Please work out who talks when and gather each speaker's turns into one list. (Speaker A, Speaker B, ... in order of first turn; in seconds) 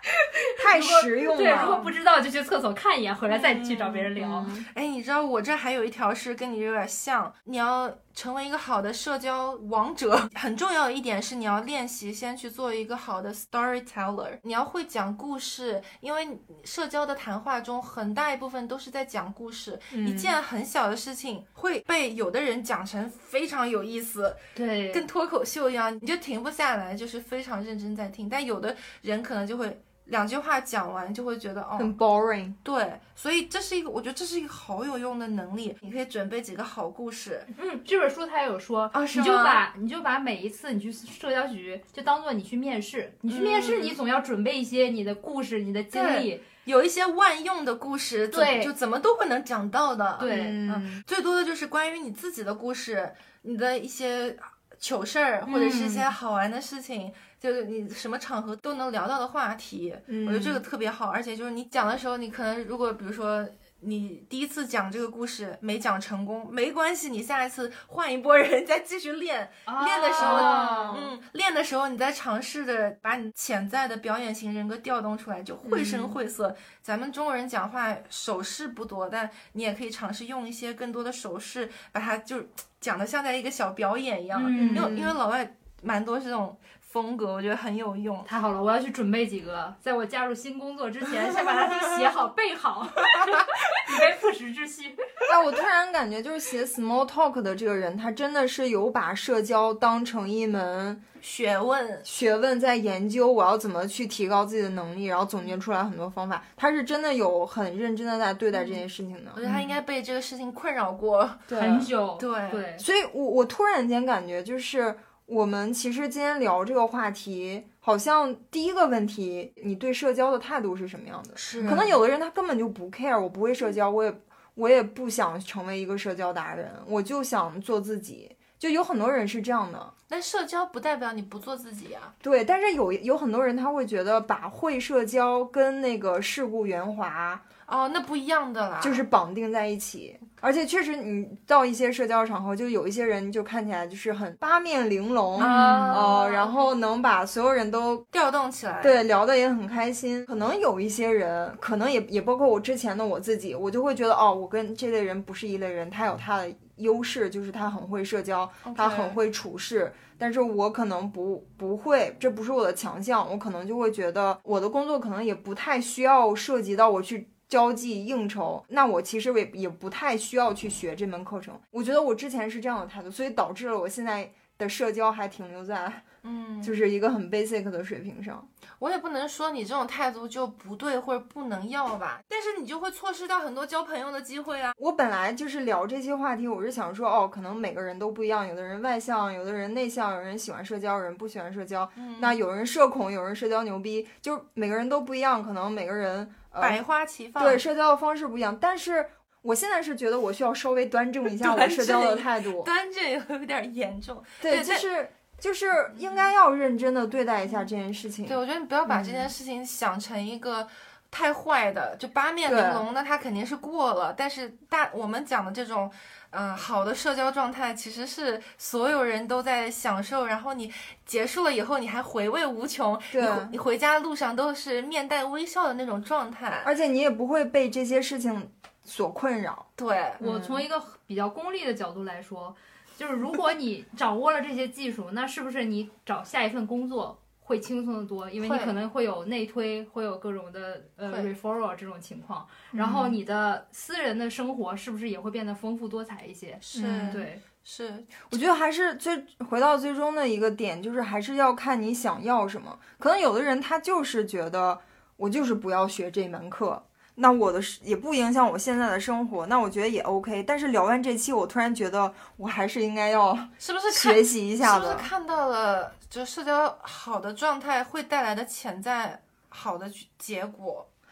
Speaker A: 0.1-4.5, 24.6-25.1, 37.5-46.4, 48.3-48.7, 50.2-50.6, 69.7-71.0, 84.3-84.9, 88.3-95.0, 111.5-112.8, 145.4-146.4, 230.2-247.4
Speaker B: 0.6-1.8, 4.2-4.7, 19.9-20.4, 31.8-32.6, 50.2-51.0, 55.5-56.1, 60.1-60.6, 70.2-71.1, 75.6-76.2, 84.5-85.2, 95.3-101.0, 102.0-109.6, 111.5-111.9, 112.8-129.9, 132.2-137.4, 138.8-148.1, 148.8-176.1, 176.6-178.5, 184.8-196.8, 197.4-202.7, 204.4-209.3, 212.5-212.9, 223.1-223.6, 226.6-229.7, 230.2-230.6, 242.7-243.2, 246.7-247.2, 248.3-265.1
Speaker C: 1.5-1.9, 3.3-24.4, 24.9-31.9, 32.6-37.5, 38.9-39.6, 43.3-44.0, 45.9-88.3, 101.2-102.0, 109.3-111.5, 112.2-112.7, 121.3-122.0, 130.1-132.1, 137.7-139.1, 145.4-146.5, 148.1-149.0, 158.6-159.2, 176.2-176.8, 178.8-184.8, 192.0-192.4, 196.6-197.6, 201.3-204.9, 208.3-226.7, 229.8-230.2, 238.4-238.8, 241.1-241.3, 246.6-248.4, 263.6-270.9